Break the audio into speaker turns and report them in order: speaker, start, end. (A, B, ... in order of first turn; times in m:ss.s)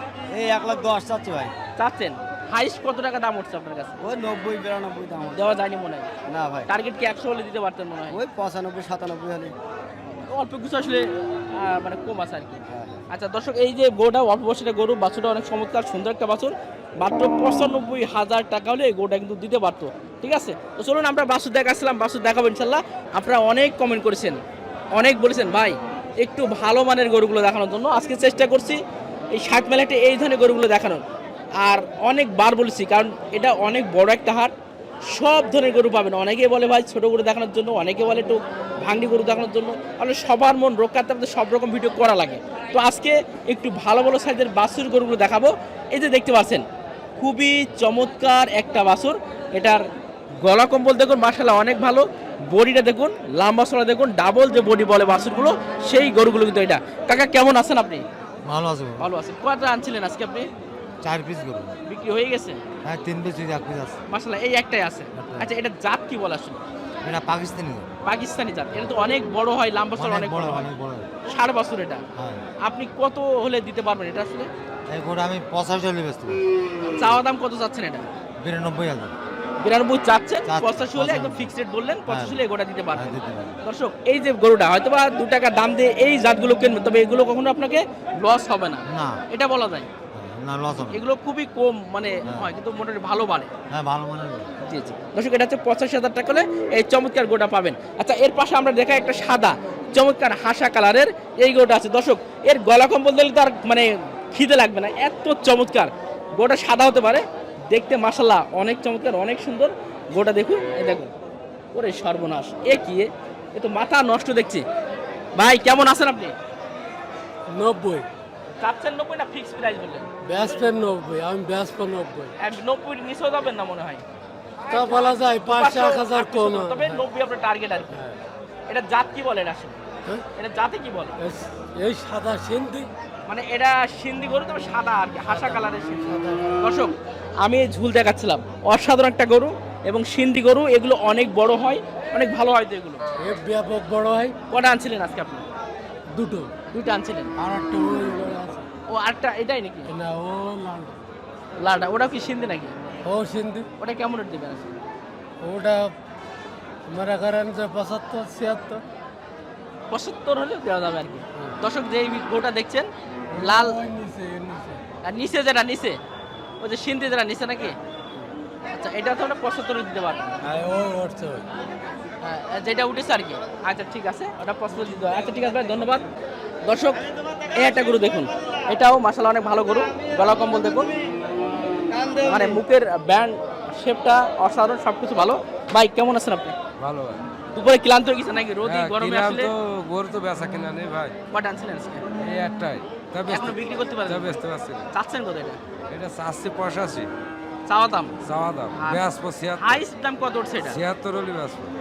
0:01.8-0:03.9 A
0:04.3-0:05.3 B
0:05.3-0:06.1 A
0:06.7-0:08.2 A
0:08.2-0:09.5 B
0:10.1-0:24.4 A
0:24.9-0:28.8 A
0:29.3-0:31.0 A
0:31.6-0:34.5 A
0:35.1-0:46.6 A
0:47.2-0:49.8 A
0:50.4-0:58.0 A
0:58.4-0:59.1 C
0:59.0-1:00.5 A
1:01.0-1:01.8 C
1:01.9-1:02.6 A
1:02.8-1:04.0 C
1:04.1-1:06.6 A
1:05.2-1:05.5 C
1:07.0-1:07.9 C
1:08.0-1:10.6 A
1:10.0-1:11.1 C
1:11.3-1:12.0 A
1:12.2-1:12.4 C
1:12.6-1:14.5 A
1:14.9-1:16.4 C
1:16.9-1:18.0 A
1:18.4-1:19.1 C
1:19.6-1:29.9 A
1:20.5-1:21.5 C
1:22.1-1:22.4 C
1:22.9-1:23.6 C
1:28.9-1:29.2 C
1:30.1-1:31.0 C
1:30.9-1:33.5 A
1:33.7-1:34.5 C
1:34.7-1:51.1 A
1:51.7-1:54.6 A
1:55.4-1:56.3 A
1:57.5-1:58.1 D
1:58.6-2:00.1 A
2:00.2-2:02.3 D
2:02.4-2:04.0 A
2:04.7-2:07.0 D
2:04.8-2:08.0 A
2:08.7-2:09.8 A
2:10.4-2:11.1 A
2:11.2-2:12.9 D
2:13.3-2:23.0 A
2:23.2-2:24.4 D
2:24.5-2:25.4 A
2:26.1-2:26.5 D
2:26.7-2:27.3 A
2:27.4-2:28.6 D
2:28.9-2:29.9 A
2:29.9-2:31.0 D
2:31.6-2:32.7 A
2:33.0-2:33.7 D
2:33.8-2:34.8 A
2:35.4-2:35.9 D
2:36.9-2:38.8 D
2:39.9-2:43.8 A
2:43.3-2:44.8 D
2:45.0-2:46.0 A
2:46.6-2:47.8 A
2:48.7-2:50.4 A
2:50.4-2:51.4 D
2:52.2-2:56.0 A
2:56.6-2:57.0 A
2:57.5-3:00.9 A
3:02.2-3:06.5 A
3:06.8-3:07.2 E
3:07.5-3:09.5 A
3:08.6-3:11.1 E
3:11.3-3:12.0 A
3:12.2-3:14.8 E
3:13.3-3:14.3 A
3:14.9-3:15.6 A
3:15.9-3:17.1 E
3:17.7-3:18.1 A
3:18.2-3:19.8 E
3:18.8-3:19.0 A
3:19.6-3:20.8 A
3:20.6-3:21.7 E